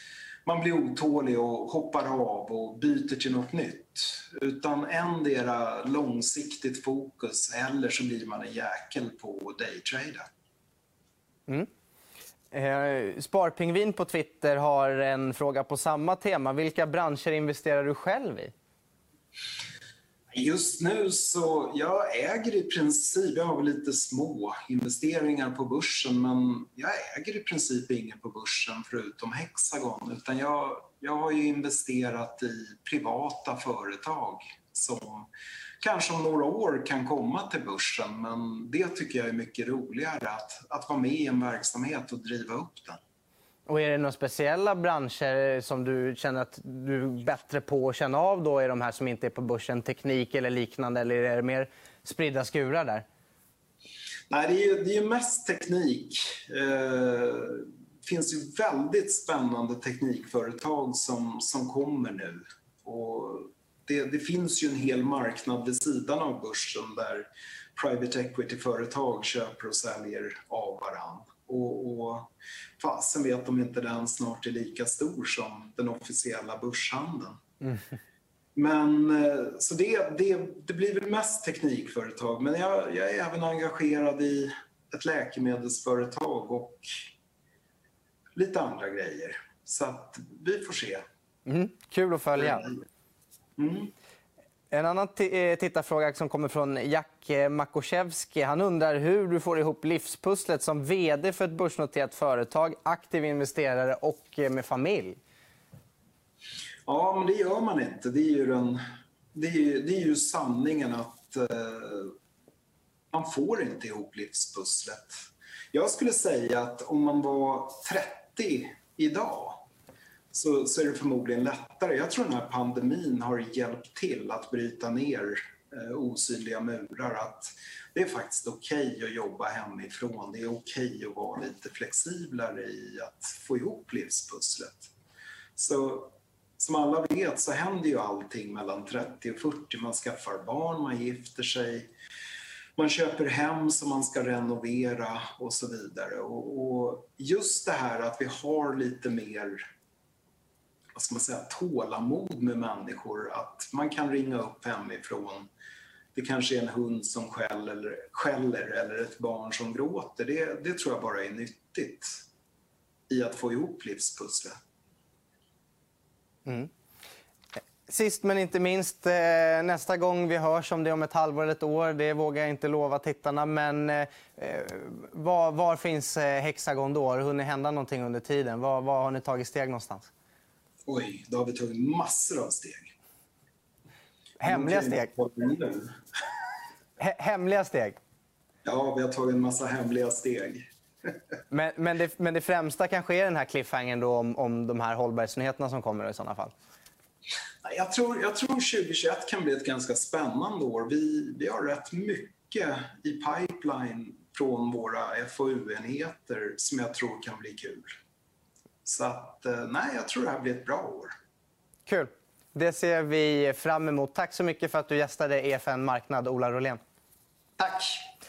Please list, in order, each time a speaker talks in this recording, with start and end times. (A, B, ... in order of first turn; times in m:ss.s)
0:00.4-0:10.2 A
0:12.5-0:18.5 B
0:20.3-0:35.3 A
0:35.8-0:43.0 A
0:43.7-0:53.0 B
0:54.3-1:17.4 A
1:18.5-1:27.1 A
1:28.4-1:31.0 A
1:31.4-1:32.6 B
1:32.4-1:32.8 A
1:33.6-1:33.9 A
1:34.7-1:45.2 B
1:46.9-1:48.8 A
1:49.3-1:52.1 A
1:53.1-1:59.7 A
2:00.3-2:14.9 A
2:15.6-2:21.9 A
2:22.8-2:29.6 A
2:30.9-2:35.5 A
2:36.1-2:42.2 A
2:43.1-2:44.6 A
2:47.9-3:00.1 B
3:00.9-3:02.9 A
3:04.4-3:05.1 B
3:04.4-3:06.0 A
3:07.0-3:08.0 B
3:08.6-3:11.1 A
3:11.5-3:16.5 B
3:17.6-3:28.0 A
3:28.8-3:31.1 A
3:31.9-3:36.8 B
3:37.6-3:38.0 A